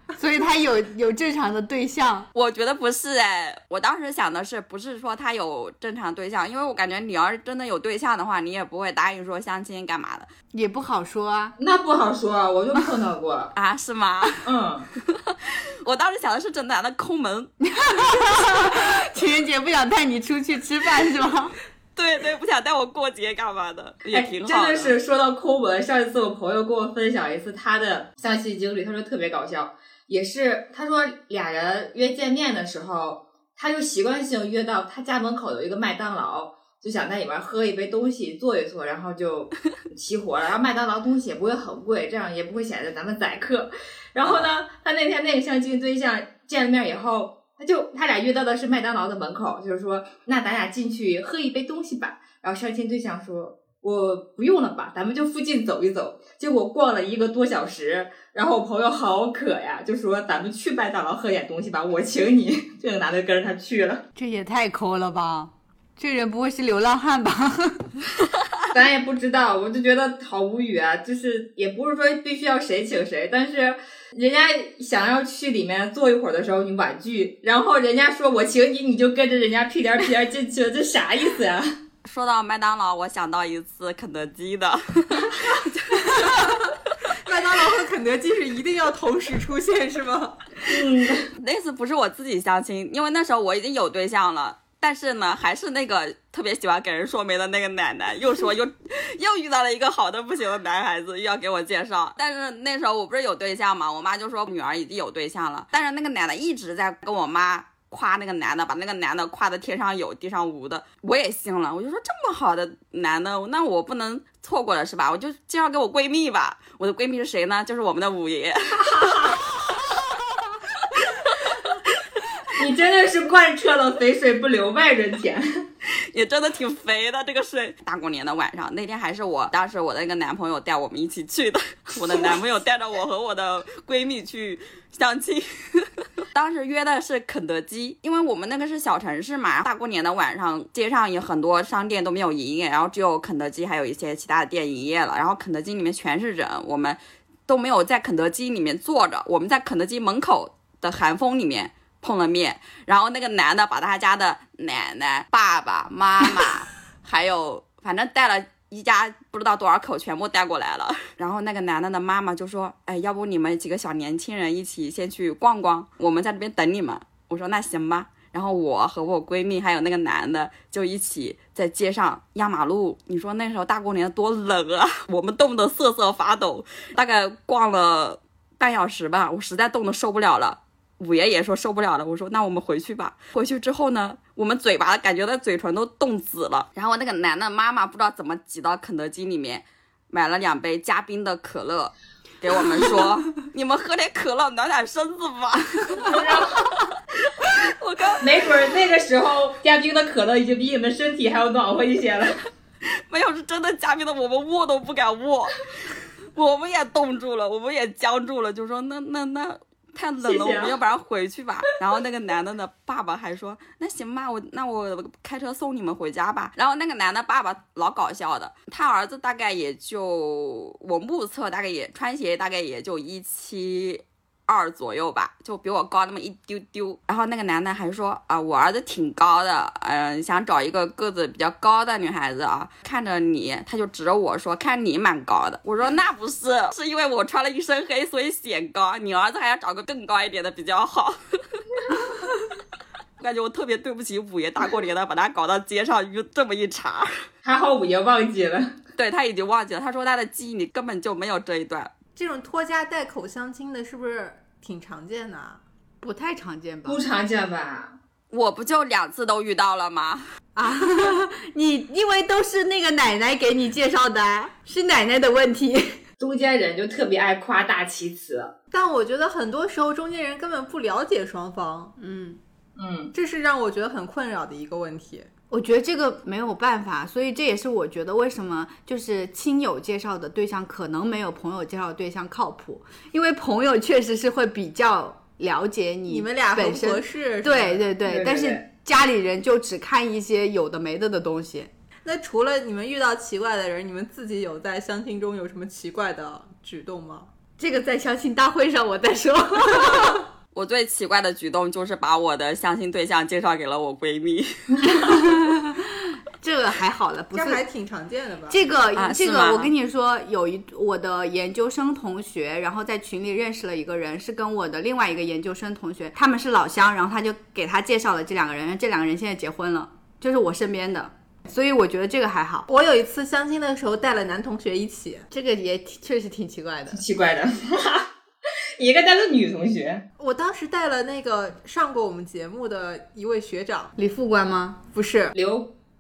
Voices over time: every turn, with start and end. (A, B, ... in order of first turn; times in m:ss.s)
0:00.2-0:02.3 A
0:02.3-0:10.3 B
0:10.5-0:11.6 A
0:11.6-0:13.5 C
0:13.6-0:14.4 B
0:14.4-0:14.9 C
0:15.0-0:17.5 B
0:17.6-0:21.5 A
0:22.0-0:25.0 B
0:24.1-1:04.0 C
0:44.2-0:44.5 B
1:04.2-1:07.9 A
1:08.7-1:21.8 C
1:22.0-1:26.6 B
1:26.1-1:30.4 D
1:30.7-1:31.3 C
1:31.4-1:59.8 B
1:58.8-1:59.4 C
2:02.6-2:05.5 C
2:06.1-3:16.6 B
3:16.0-3:16.7 C
3:17.2-3:18.8 B
3:18.2-3:22.3 C
3:23.1-3:25.7 B
3:26.4-4:02.3 B
3:30.2-3:30.8 C
4:03.2-4:07.2 B
4:07.4-4:08.7 C
4:09.0-4:11.9 B
4:12.2-4:15.6 D
4:16.0-4:17.0 A
4:16.9-4:18.0 C
4:18.3-4:20.3 B
4:20.6-4:26.0 A
4:26.2-4:28.5 C
4:28.7-4:31.9 D
4:32.0-4:32.4 A
4:32.8-4:33.1 C
4:33.1-4:35.3 D
4:35.5-4:51.7 A
4:46.1-4:47.9 D
4:48.0-4:48.6 C
4:52.0-4:57.3 D
4:57.6-5:00.2 A
5:00.6-5:05.2 B
5:04.8-5:07.6 A
5:07.3-5:08.6 D
5:08.5-5:22.7 A
5:09.0-5:09.7 B
5:22.7-5:25.3 D
5:25.3-5:27.0 A
5:26.9-5:28.1 C
5:28.8-5:30.0 C
5:30.2-5:33.9 D
5:34.0-5:34.8 A
5:34.9-5:35.4 D
5:35.3-5:35.7 C